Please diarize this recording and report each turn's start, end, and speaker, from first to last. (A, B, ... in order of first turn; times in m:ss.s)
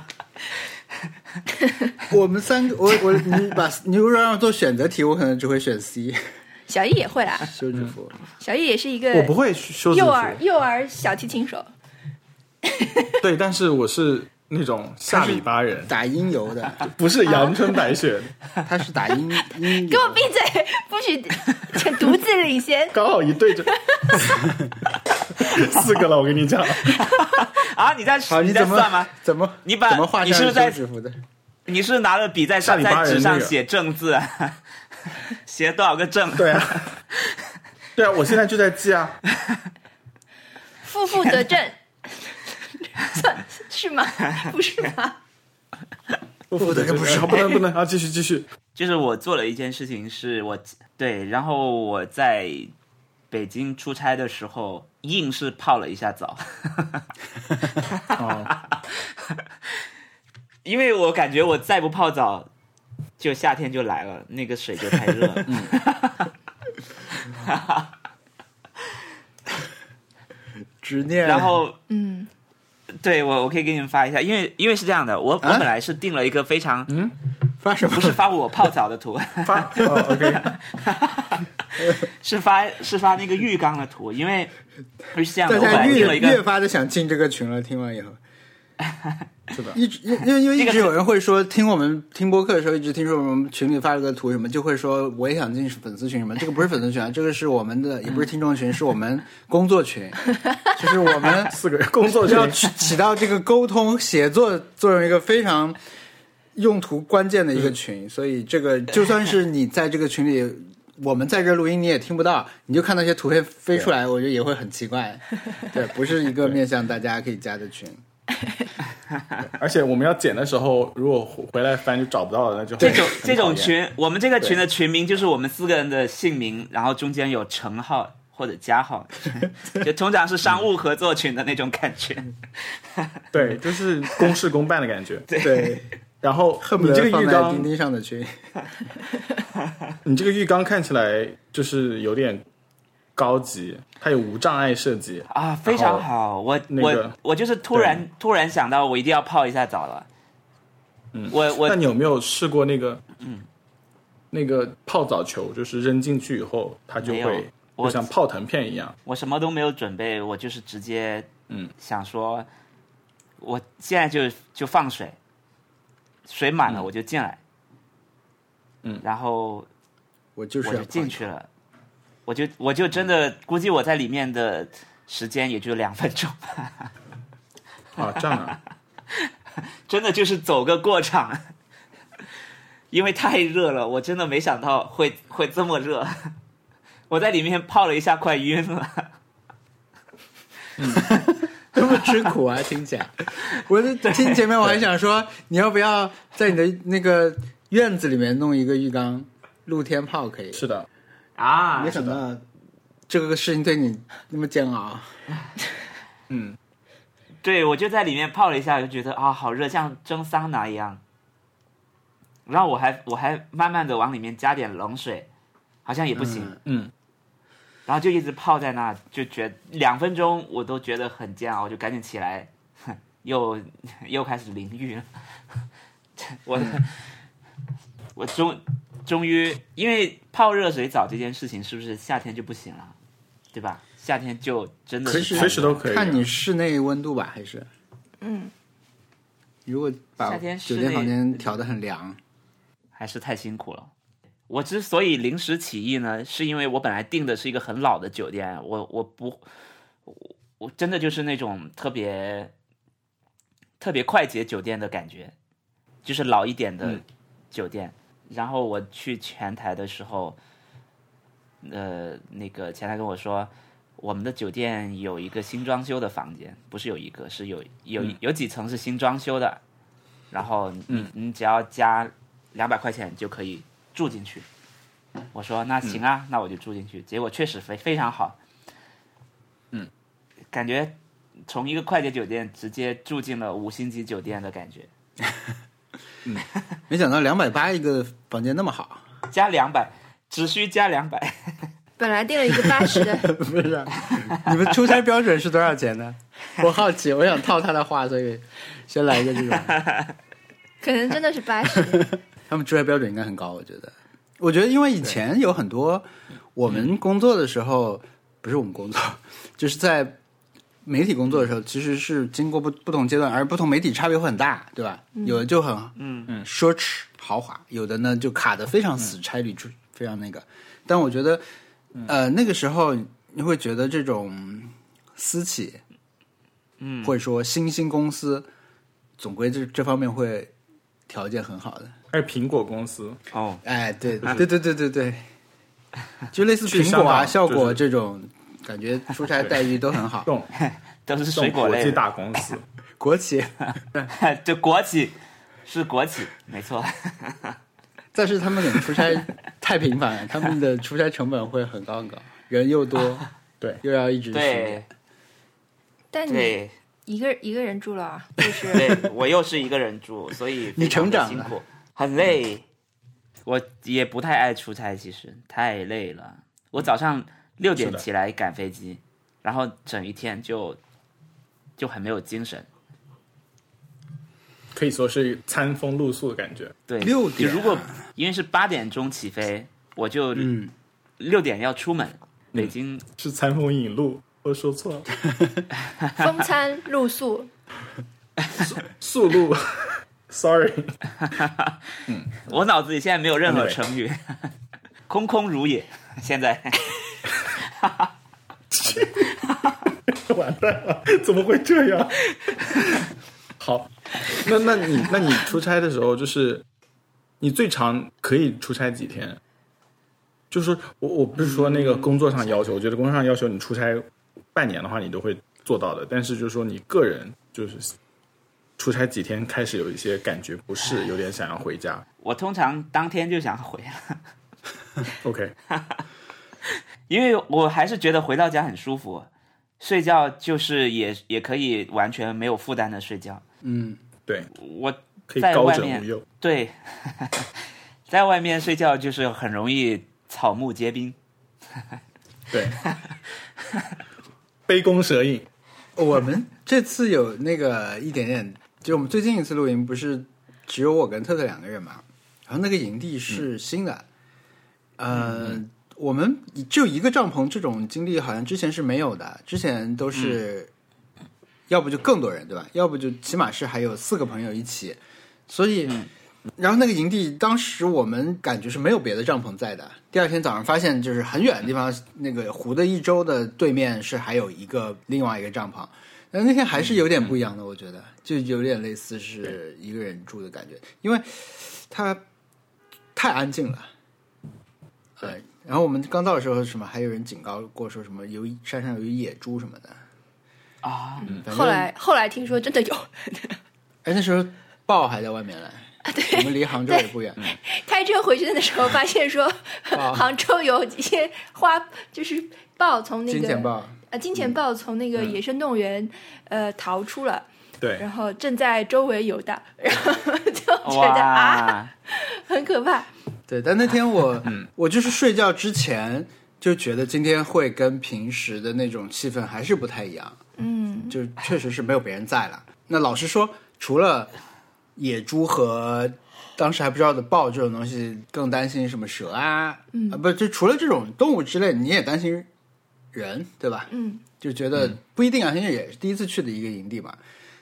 0:02.1-0:06.2 A
0:06.7-0:07.5 B
0:07.5-0:08.1 A
0:08.4-0:09.3 B
0:09.1-0:10.4 C
0:09.9-0:11.7 B
0:12.7-0:13.1 B
0:13.2-0:15.9 C
0:15.1-0:16.9 A
0:16.8-0:18.3 C
0:17.2-0:17.8 B
0:18.6-0:20.2 A
0:19.6-0:23.0 B
0:22.9-0:24.2 C
0:23.6-0:24.2 B
0:24.4-0:24.7 A
0:25.2-0:27.1 C
0:26.9-0:29.1 D
0:28.3-0:31.2 A
0:29.6-0:30.8 D
0:31.7-0:34.6 D
0:32.6-0:33.5 C
0:35.4-0:37.3 D
0:36.4-0:36.9 C
0:37.9-0:39.2 C
0:40.8-0:45.2 B
0:46.5-0:48.5 C
0:46.6-0:47.4 A
0:48.7-0:52.7 D
0:53.3-0:57.0 D
0:57.8-0:59.4 D
0:58.2-0:58.5 C
1:00.6-1:02.5 D
1:03.2-1:06.3 D
1:05.4-1:05.7 C
1:07.3-1:07.9 D
1:10.8-1:11.6 A
1:11.2-1:11.8 D
1:11.9-1:12.3 B
1:13.0-1:16.9 D
1:16.9-1:17.1 C
1:17.6-1:18.2 A
1:17.9-1:24.5 D
1:19.4-1:20.5 C
1:25.1-1:26.4 D
1:25.4-1:28.2 A
1:25.6-1:26.2 C
1:28.8-1:29.2 D
1:29.5-1:29.8 C
1:29.7-1:41.5 A
1:30.6-1:30.9 D
1:41.4-1:42.6 C
1:42.2-1:45.8 A
1:46.5-1:58.0 A
1:59.4-2:03.7 C
2:02.8-2:13.2 D
2:13.3-2:15.2 C
2:15.3-2:15.8 D
2:15.4-2:15.9 A
2:16.2-2:17.7 C
2:16.6-2:18.3 A
2:20.0-2:22.4 C
2:23.2-2:26.1 C
2:25.3-2:30.1 D
2:26.7-2:27.1 C
2:27.7-2:28.0 C
2:31.1-2:33.0 C
2:31.3-2:31.8 D
2:33.2-2:33.4 D
2:34.3-2:39.0 C
2:37.0-2:38.1 D
2:39.0-2:42.5 D
2:43.4-2:45.2 D
2:46.2-2:47.4 D
2:49.0-2:49.7 D
2:50.4-2:51.3 A
2:50.6-2:51.5 D
2:52.3-2:56.9 D
2:58.0-2:58.6 C
2:59.8-3:01.4 D
3:02.9-3:06.3 D
3:07.1-3:09.1 D
3:10.8-3:11.1 C
3:11.0-3:20.6 A
3:14.0-3:14.4 D
3:20.5-3:20.9 C
3:21.4-3:22.1 D
3:21.7-3:22.4 A
3:21.9-3:22.2 C
3:23.1-3:25.1 A
3:26.3-3:26.6 C
3:27.4-3:31.0 D
3:32.4-3:35.3 D
3:35.8-3:36.5 D
3:36.2-3:36.6 A
3:36.6-3:36.9 C
3:37.8-3:45.6 D
3:46.2-3:46.9 D
3:48.1-3:52.9 D
3:53.5-3:55.8 D
3:55.0-3:57.7 A
3:55.1-3:56.2 C
3:58.2-3:58.5 B
3:59.6-4:02.2 A
4:00.2-4:01.4 D
4:02.9-4:03.9 D
4:04.5-4:09.4 D
4:10.0-4:12.5 D
4:13.8-4:15.3 D
4:16.0-4:20.4 D
4:21.6-4:29.6 D
4:30.3-4:34.4 D
4:35.3-4:38.4 D
4:40.5-4:44.9 D
4:46.9-4:49.0 A
4:49.3-4:51.7 D
4:52.0-4:53.3 B
4:52.6-4:59.8 A
5:00.8-5:02.1 B
5:01.9-5:10.2 A
5:10.8-5:21.4 A
5:15.2-5:15.4 B
5:16.0-5:16.3 D
5:22.0-5:25.8 A
5:26.8-5:27.1 D
5:27.0-5:28.5 A
5:29.2-5:30.5 A
5:31.1-5:31.9 A
5:32.1-5:33.2 C
5:33.3-5:33.6 D
5:33.6-5:35.2 A
5:36.3-5:40.3 A
5:36.7-5:37.8 C
5:41.1-5:42.0 D
5:41.3-5:42.6 C
5:43.0-5:44.1 A
5:44.1-5:45.1 D
5:45.6-5:47.6 D
5:48.1-5:53.2 A
5:53.8-5:54.8 A
5:54.3-5:54.9 D
5:56.1-5:59.0 B
5:56.3-5:56.7 D
5:58.7-6:02.6 D
6:00.7-6:01.5 A
6:03.4-6:10.8 D
6:07.8-6:08.0 C
6:11.8-6:12.7 D
6:14.7-6:16.7 C
6:16.9-6:20.6 D
6:17.0-6:17.9 A
6:20.4-6:20.7 A
6:21.2-6:23.0 D
6:22.5-6:25.1 C
6:26.2-6:27.5 B
6:28.5-6:31.0 C
6:31.4-6:31.7 D
6:32.1-6:32.4 C
6:32.4-6:34.5 D
6:33.4-6:33.8 C
6:35.1-6:38.1 D
6:38.7-6:39.3 C
6:39.9-6:43.0 C
6:43.6-6:46.6 C
6:47.4-6:49.4 C
6:50.5-6:57.9 C
6:51.4-6:52.6 D
6:58.8-7:02.0 C
7:02.2-7:04.2 D
7:05.2-7:05.5 C
7:05.7-7:06.0 D
7:06.6-7:09.3 D
7:09.8-7:13.4 D
7:13.6-7:14.0 A
7:14.5-7:17.5 D
7:15.3-7:16.2 C
7:18.1-7:21.2 D
7:22.5-7:22.8 C
7:24.7-7:25.5 C
7:26.0-7:34.0 A
7:35.0-7:40.7 A
7:41.7-8:02.2 A
8:03.1-8:03.9 A
8:05.2-8:10.0 A
8:10.8-8:11.3 D
8:11.2-8:13.6 B
8:11.4-8:11.9 A
8:14.0-8:17.4 A
8:16.0-8:27.5 B
8:19.9-8:20.3 A
8:23.3-8:24.0 A
8:27.8-8:28.0 C
8:28.0-8:33.1 B
8:30.8-8:31.9 D
8:33.5-8:40.4 A
8:40.6-8:41.2 B
8:41.1-8:44.3 A
8:45.0-8:52.5 A
8:49.9-8:50.2 B
8:53.1-8:53.9 A
8:53.9-8:54.2 B
8:54.4-8:57.2 A